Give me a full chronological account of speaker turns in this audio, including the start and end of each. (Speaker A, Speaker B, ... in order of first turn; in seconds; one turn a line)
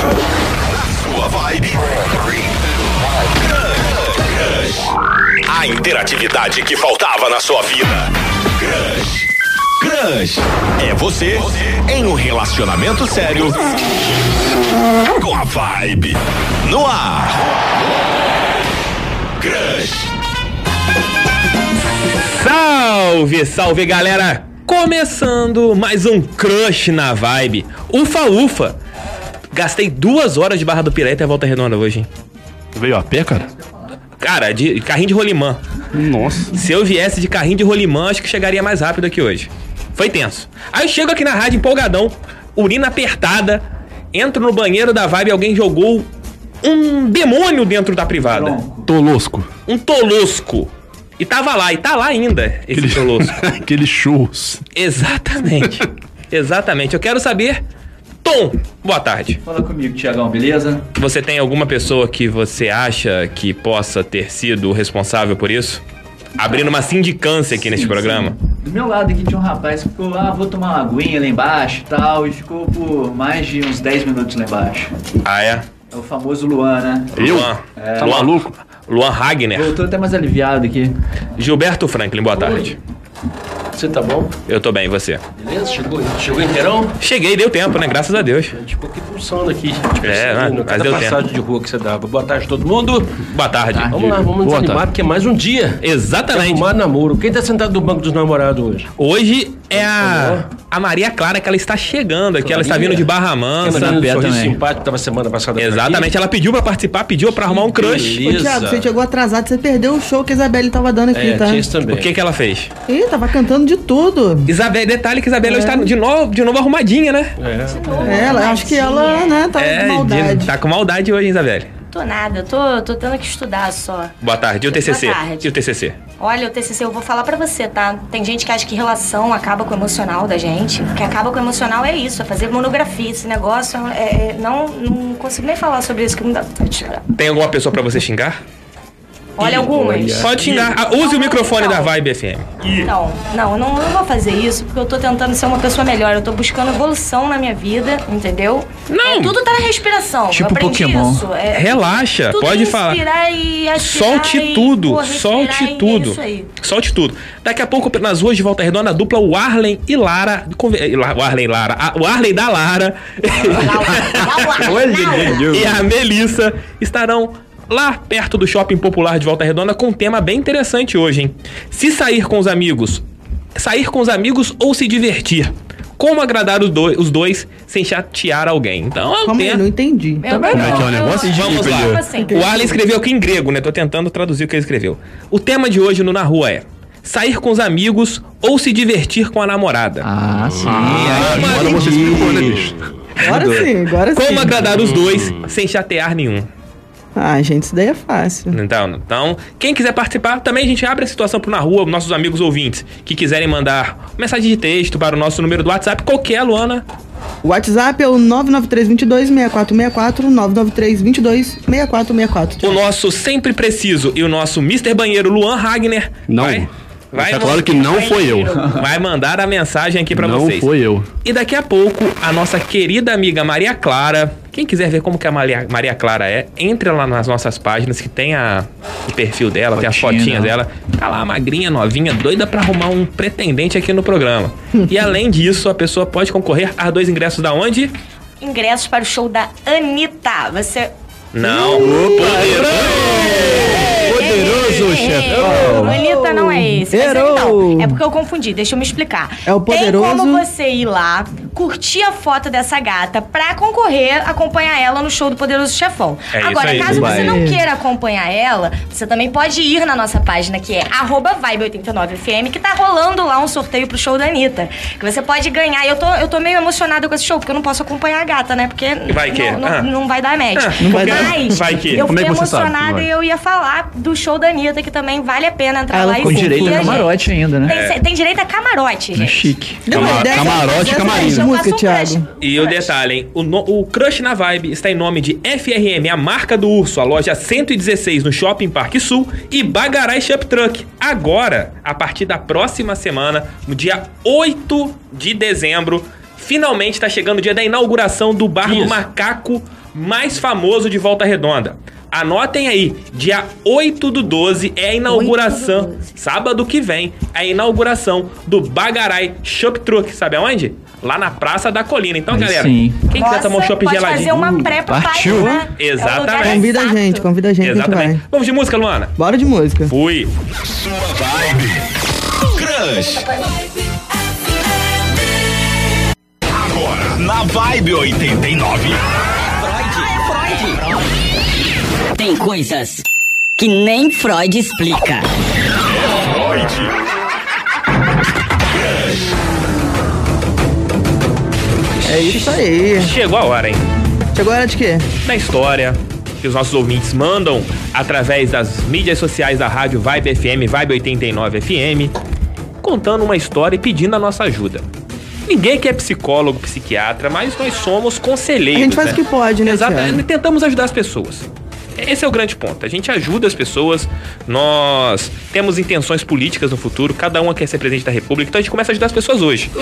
Speaker A: 0.8-2.3
Speaker A: 3.4-4.9
Speaker A: 5.5-9.3
Speaker A: 9.8-13.7
Speaker A: 15.1-17.6
Speaker A: 19.4-20.1
Speaker B: 22.2-28.8
Speaker B: 29.5-32.1
Speaker C: 32.8-33.5
Speaker B: 34.2-35.6
Speaker C: 35.9-36.5
Speaker B: 36.5-46.1
Speaker B: 46.6-48.6
Speaker D: 48.2-48.9
Speaker C: 48.9-49.5
Speaker B: 49.7-53.5
Speaker C: 52.7-54.6
Speaker B: 54.7-57.6
Speaker B: 58.2-59.4
Speaker D: 59.4-60.8
Speaker B: 61.0-65.8
Speaker B: 66.4-68.4
Speaker D: 67.6-74.9
Speaker B: 75.2-75.7
Speaker D: 75.9-77.1
Speaker B: 77.2-79.8
Speaker C: 77.2-77.5
Speaker D: 77.8-78.2
Speaker D: 79.5-81.0
Speaker B: 81.4-82.8
Speaker E: 82.3-82.8
Speaker E: 83.7-84.4
Speaker B: 84.5-85.2
Speaker E: 85.4-86.9
Speaker B: 87.0-88.5
Speaker E: 88.5-93.2
Speaker B: 90.0-91.2
Speaker B: 93.3-94.0
Speaker D: 93.7-94.0
Speaker E: 93.9-98.9
Speaker C: 94.4-94.8
Speaker B: 95.8-96.7
Speaker B: 99.0-104.4
Speaker E: 99.7-100.5
Speaker E: 102.4-103.1
Speaker E: 103.6-106.1
Speaker D: 103.7-104.6
Speaker B: 105.6-108.2
Speaker E: 107.5-108.9
Speaker F: 108.2-111.6
Speaker E: 111.1-112.1
Speaker B: 111.9-112.7
Speaker F: 112.9-114.5
Speaker B: 114.5-117.3
Speaker F: 115.4-115.9
Speaker E: 117.4-118.3
Speaker G: 117.7-119.4
Speaker F: 118.0-120.5
Speaker B: 119.6-121.7
Speaker G: 121.9-124.2
Speaker B: 124.2-126.0
Speaker G: 124.7-125.5
Speaker G: 126.2-137.0
Speaker B: 137.1-138.4
Speaker G: 139.4-141.9
Speaker B: 139.4-142.9
Speaker G: 142.9-156.5
Speaker B: 148.9-149.3
Speaker D: 150.3-151.3
Speaker B: 151.5-153.0
Speaker B: 153.8-164.7
Speaker G: 163.6-165.4
Speaker D: 164.6-165.9
Speaker B: 165.4-173.0
Speaker B: 173.6-179.6
Speaker F: 179.3-180.2
Speaker G: 180.2-182.6
Speaker C: 180.3-182.0
Speaker D: 180.3-181.0
Speaker B: 181.2-190.1
Speaker F: 182.3-182.7
Speaker D: 190.0-192.8
Speaker C: 190.6-192.7
Speaker B: 190.8-192.4
Speaker F: 193.2-194.6
Speaker B: 193.2-196.5
Speaker F: 197.2-198.6
Speaker B: 198.5-206.8
Speaker F: 207.4-212.8
Speaker B: 212.6-220.7
Speaker C: 216.3-218.7
Speaker G: 217.9-218.7
Speaker C: 220.1-221.1
Speaker B: 221.2-237.9
Speaker D: 229.8-230.6
Speaker G: 238.4-240.9
Speaker B: 241.3-243.7
Speaker F: 241.4-242.7
Speaker D: 241.8-246.0
Speaker G: 243.0-282.9
Speaker F: 245.4-248.0
Speaker F: 249.5-250.4
Speaker B: 256.3-257.3
Speaker D: 256.9-257.4
Speaker F: 257.0-257.6
Speaker B: 269.1-269.9
Speaker B: 270.6-272.1
Speaker F: 270.8-271.4
Speaker C: 272.0-273.1
Speaker F: 275.9-277.1
Speaker D: 276.2-277.7
Speaker B: 277.7-278.0
Speaker D: 279.1-279.9
Speaker F: 279.9-282.3
Speaker C: 279.9-281.5
Speaker B: 282.4-314.6
Speaker E: 298.6-299.0
Speaker F: 305.2-305.6
Speaker G: 305.2-306.0
Speaker D: 312.3-313.0
Speaker G: 313.1-317.2
Speaker D: 314.6-315.6
Speaker B: 315.8-316.7
Speaker F: 316.4-318.2
Speaker B: 317.6-319.1
Speaker F: 319.2-319.9
Speaker B: 319.9-320.3
Speaker A: 320.6-321.9
Speaker A: 322.5-323.3
Speaker A: 326.5-329.0
Speaker H: 329.6-331.0
Speaker H: 332.1-333.0
Speaker H: 333.6-335.3
Speaker A: 335.9-336.9
Speaker A: 338.7-339.2
Speaker F: 342.1-343.1
Speaker B: 343.0-343.8
Speaker F: 344.3-345.1
Speaker B: 345.2-352.1
Speaker B: 352.8-354.9
Speaker B: 355.5-361.5
Speaker F: 358.8-360.2
Speaker B: 362.0-369.7